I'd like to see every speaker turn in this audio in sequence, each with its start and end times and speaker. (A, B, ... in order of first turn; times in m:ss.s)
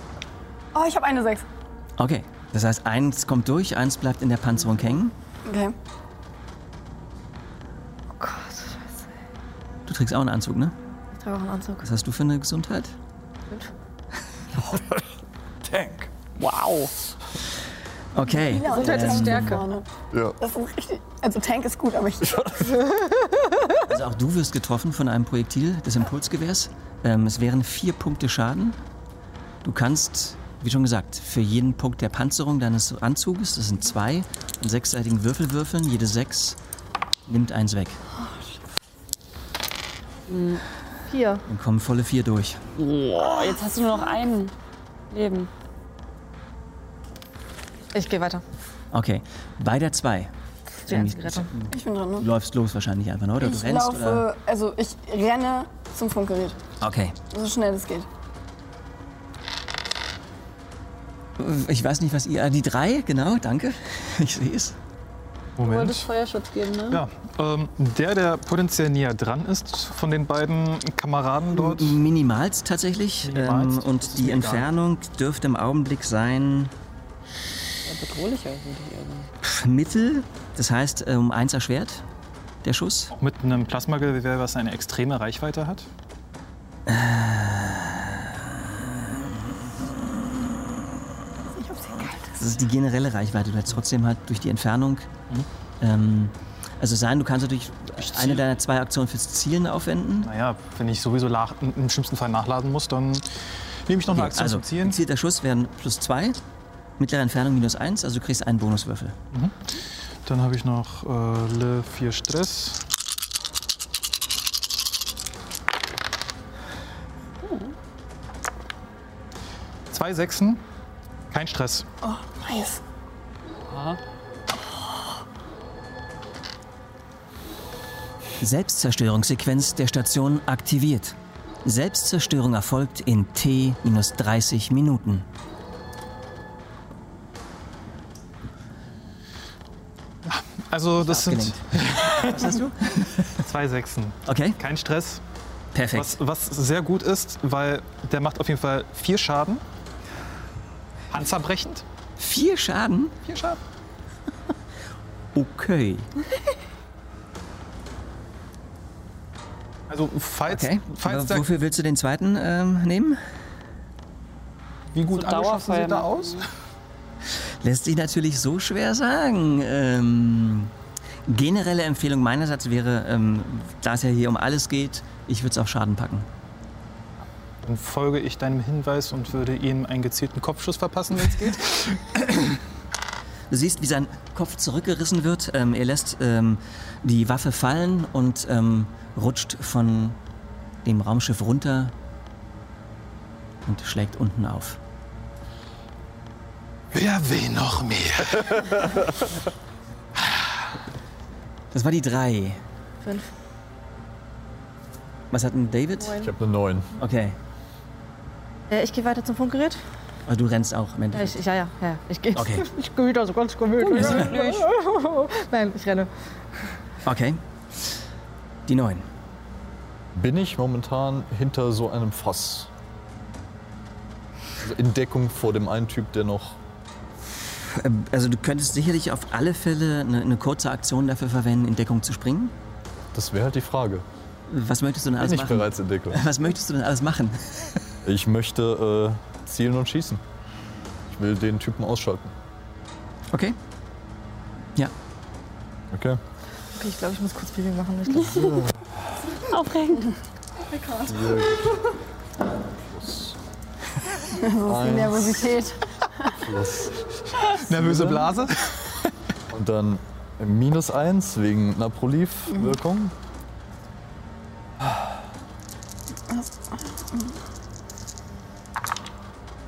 0:00.7-0:01.4 A
0:02.0-0:05.1 B
0:05.4-0:05.7 A
0:08.2-0:08.9 C
0:09.9-0:10.7 B
0:11.1-0:11.8 C
0:11.8-0:12.9 B
0:14.7-0:14.9 D
0:15.6-0:16.1 D
0:16.4-0:16.9 E
0:18.1-0:19.6 B
0:18.4-0:19.9 A
0:18.7-0:19.6 C
0:20.4-0:22.4 A
0:22.2-0:22.9 D
0:23.8-0:28.8 B
0:29.6-0:36.6 B
0:37.3-0:38.0 B
0:40.3-0:40.6 E
0:41.1-0:41.4 C
0:41.5-0:42.6 B
0:42.8-0:44.5 E
0:45.1-0:45.5 E
0:47.9-0:48.4 C
0:48.9-0:50.3 B
0:50.9-0:54.3 B
0:50.9-0:51.5 C
0:51.7-0:52.3 A
0:53.4-0:56.6 A
0:56.8-0:57.2 B
0:57.3-0:58.1 A
1:01.4-1:04.8 B
1:05.6-1:06.1 F
1:05.6-1:07.0 E
1:06.9-1:12.0 F
1:11.6-1:16.7 B
1:13.2-1:14.7 F
1:17.9-1:19.3 E
1:19.4-1:22.0 B
1:22.6-1:23.1 B
1:23.2-1:25.9 F
1:26.9-1:29.2 B
1:31.5-1:32.6 A
1:32.4-1:35.1 B
1:35.8-1:40.3 B
1:38.0-1:38.4 F
1:40.2-1:43.3 F
1:43.9-1:45.0 F
1:44.1-1:46.4 B
1:47.0-1:49.2 B
1:49.3-1:49.7 F
1:50.2-1:52.8 F
1:57.4-1:57.7 E
1:59.9-2:00.6 F
2:01.3-2:01.9 F
2:02.0-2:02.8 A
2:03.7-2:04.0 E
2:08.4-2:15.3 B
2:20.3-2:22.6 F
2:21.0-2:23.4 B
2:23.4-2:25.2 F
2:24.3-2:24.6 B
2:25.7-2:26.2 B
2:25.9-2:29.6 F
2:31.1-2:31.8 F
2:32.2-2:33.2 B
2:33.2-2:33.6 F
2:35.3-2:36.1 B
2:39.9-2:41.5 F
2:40.5-2:43.2 B
2:44.9-2:46.5 F
2:45.1-2:46.4 E
2:47.6-2:50.7 B
2:51.3-2:56.3 B
2:57.6-3:02.0 F
3:03.5-3:10.2 B
3:10.8-3:11.9 B
3:13.6-3:14.8 B
3:16.9-3:18.9 F
3:21.7-3:22.6 B
3:23.0-3:23.3 C
3:25.3-3:26.2 B
3:26.2-3:26.9 D
3:27.0-3:27.4 B
3:28.7-3:29.8 C
3:30.3-3:31.4 B
3:31.1-3:36.1 C
3:32.4-3:32.7 B
3:33.8-3:34.7 E
3:33.9-3:34.3 B
3:37.0-3:37.4 B
3:38.7-3:39.0 B
3:40.1-3:42.7 D
3:44.6-3:46.6 D
3:47.6-3:52.5 B
3:53.1-3:54.0 D
3:54.5-3:57.8 B
3:55.2-3:56.2 D
3:58.0-4:00.2 D
4:01.1-4:02.3 D
4:03.3-4:03.6 B
4:05.9-4:06.2 D
4:06.8-4:08.6 C
4:08.2-4:08.9 D
4:09.4-4:10.1 E
4:10.7-4:11.4 C
4:11.0-4:11.9 D
4:12.8-4:13.4 D
4:14.3-4:16.4 A
4:14.6-4:15.4 D
4:16.3-4:18.4 D
4:17.5-4:19.0 F
4:19.5-4:23.1 D
4:24.8-4:25.1 D
4:26.3-4:27.3 A